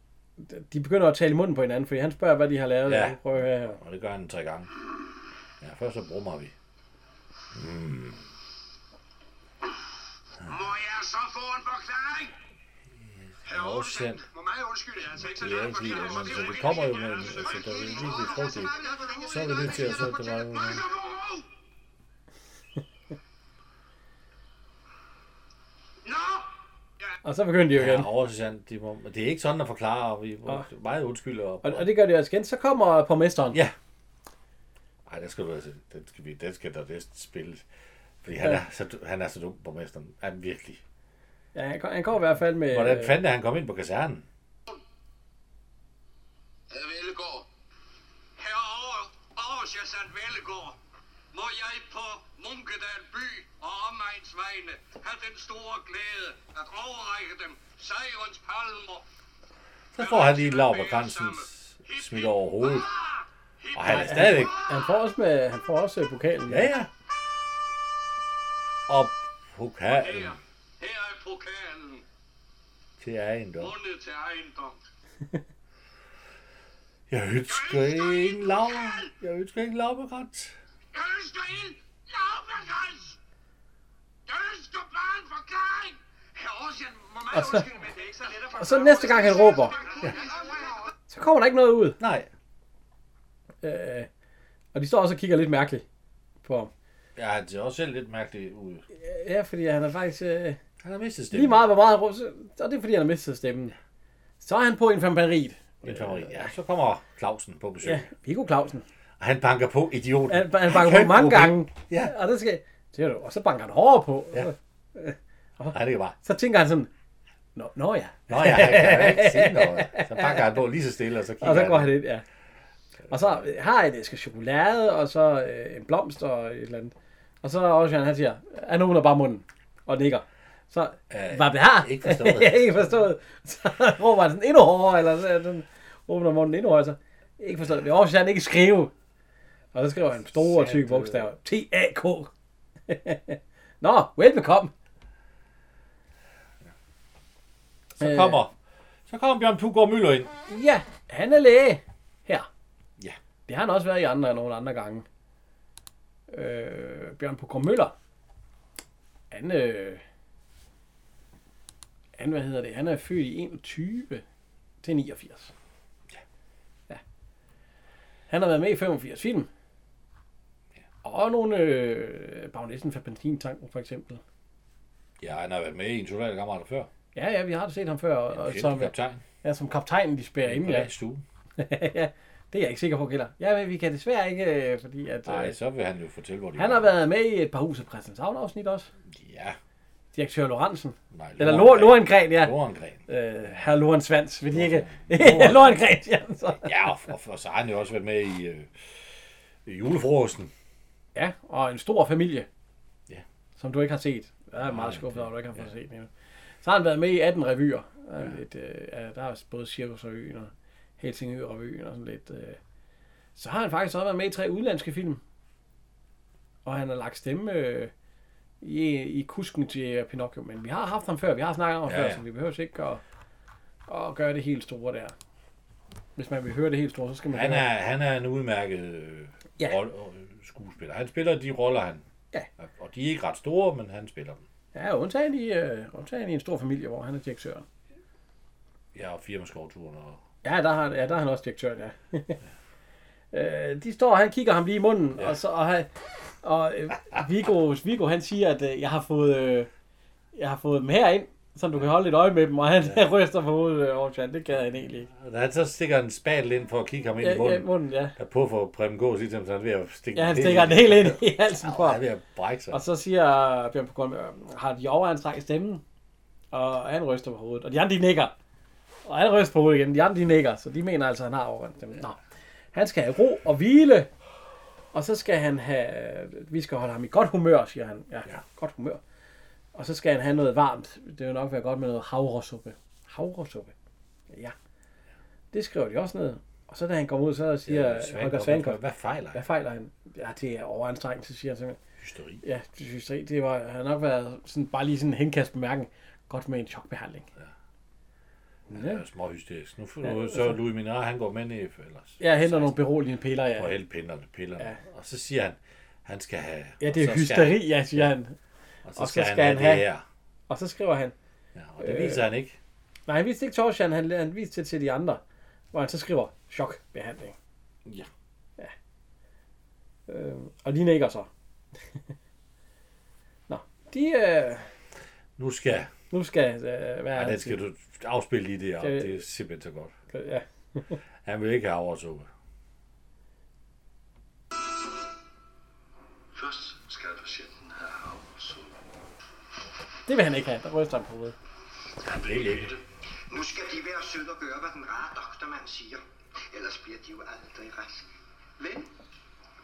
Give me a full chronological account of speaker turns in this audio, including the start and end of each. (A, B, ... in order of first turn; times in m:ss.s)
0:00.4-0:03.8 A
0:02.9-0:04.7 B
0:05.6-0:06.5 B
0:07.5-0:08.2 B
0:10.4-0:12.3 C
0:13.0-0:14.2 B
0:13.4-0:21.4 C
0:15.2-0:18.7 B
0:18.8-0:19.2 D
0:19.2-0:20.8 B
0:26.0-0:26.4 C
0:27.2-0:28.1 A
0:27.7-0:31.9 B
0:31.6-0:33.6 A
0:35.1-0:37.6 B
0:38.2-0:40.8 B
0:41.5-0:43.2 A
0:42.7-0:44.2 B
0:46.7-0:47.4 C
0:48.4-0:50.8 C
0:51.3-0:59.0 C
0:59.9-1:02.9 B
1:00.0-1:04.9 C
1:03.7-1:04.6 B
1:03.8-1:06.7 A
1:06.5-1:06.9 B
1:08.9-1:10.4 B
1:09.9-1:12.0 C
1:13.0-1:13.7 B
1:13.6-1:14.8 C
1:17.1-1:20.5 B
1:17.5-1:19.1 C
1:20.9-1:23.2 C
1:24.2-1:30.5 C
1:27.3-1:27.7 A
1:28.6-1:29.8 A
1:31.1-1:32.0 A
1:32.0-1:32.3 B
1:33.6-1:34.1 A
1:34.7-1:35.8 A
1:36.4-1:36.7 A
1:37.2-1:38.8 B
1:38.9-1:40.6 A
1:40.8-1:41.6 B
1:41.3-1:43.7 A
1:44.4-1:46.5 A
1:45.8-1:48.1 B
1:47.8-1:48.8 A
1:49.2-1:52.1 B
1:50.3-1:56.9 A
1:55.7-1:56.1 B
1:57.5-2:00.4 A
1:58.3-2:01.9 B
2:01.4-2:02.2 A
2:03.1-2:18.9 A
2:11.1-2:12.9 B
2:19.7-2:22.3 A
2:20.3-2:21.3 B
2:22.9-2:24.7 A
2:28.0-2:28.5 B
2:28.0-2:28.4 A
2:29.1-2:30.3 B
2:30.5-2:32.5 A
2:33.5-2:35.0 A
2:36.3-2:37.9 A
2:39.3-2:40.0 A
2:42.2-2:44.2 A
2:44.8-2:45.5 A
2:48.3-2:49.5 A
2:51.0-2:54.2 A
2:55.2-2:56.9 B
2:57.1-3:00.9 A
2:58.3-2:59.2 B
3:00.4-3:01.2 B
3:01.6-3:05.6 A
3:05.2-3:06.8 B
3:06.6-3:08.9 A
3:09.1-3:09.6 B
3:10.1-3:12.5 A
3:11.1-3:13.0 B
3:13.1-3:16.7 A
3:14.5-3:15.8 B
3:16.6-3:19.0 B
3:19.6-3:20.5 B
3:21.1-3:22.5 A
3:23.6-3:26.1 A
3:24.6-3:25.7 B
3:26.6-3:32.6 A
3:33.4-3:35.2 A
3:36.6-3:37.9 A
3:38.6-3:43.0 A
3:41.8-3:42.2 B
3:43.9-3:45.1 A
3:46.2-3:47.6 A
3:47.3-3:52.0 B
3:52.6-3:54.4 B
3:54.7-3:57.6 A
3:58.9-4:00.2 B
4:00.4-4:02.4 A
4:03.3-4:05.9 A
4:06.4-4:09.7 A
4:10.3-4:15.1 A
4:15.1-4:22.8 B
4:17.2-4:18.1 A
4:20.1-4:22.0 A
4:22.7-4:25.8 A
4:26.5-4:28.3 A
4:29.0-4:32.2 A
4:32.7-4:34.1 A
4:34.9-4:39.0 A
4:39.7-4:43.7 A
4:44.3-4:44.5 A
4:45.5-4:48.8 A
4:47.7-4:49.4 B
4:49.3-4:51.8 A
4:52.0-4:52.4 B
4:52.4-4:57.3 A
4:58.7-4:59.0 A
4:58.7-5:02.7 B
5:00.0-5:00.5 A
5:02.2-5:03.7 A
5:03.6-5:08.1 B
5:06.8-5:08.4 A
5:08.8-5:10.0 B
5:09.0-5:09.8 A
5:10.5-5:11.1 A
5:11.5-5:12.6 B
5:11.8-5:12.2 A
5:13.1-5:15.2 A
5:15.7-5:17.3 A
5:20.1-5:21.3 A
5:23.5-5:24.7 A
5:25.4-5:25.9 B
5:26.1-5:27.6 A
5:27.1-5:29.9 B
5:28.8-5:29.2 A
5:30.1-5:31.0 A
5:31.2-5:32.3 B
5:36.4-5:38.2 C
5:40.1-5:41.3 A
5:42.1-5:42.8 B
5:43.3-5:48.1 D
5:48.6-5:48.9 D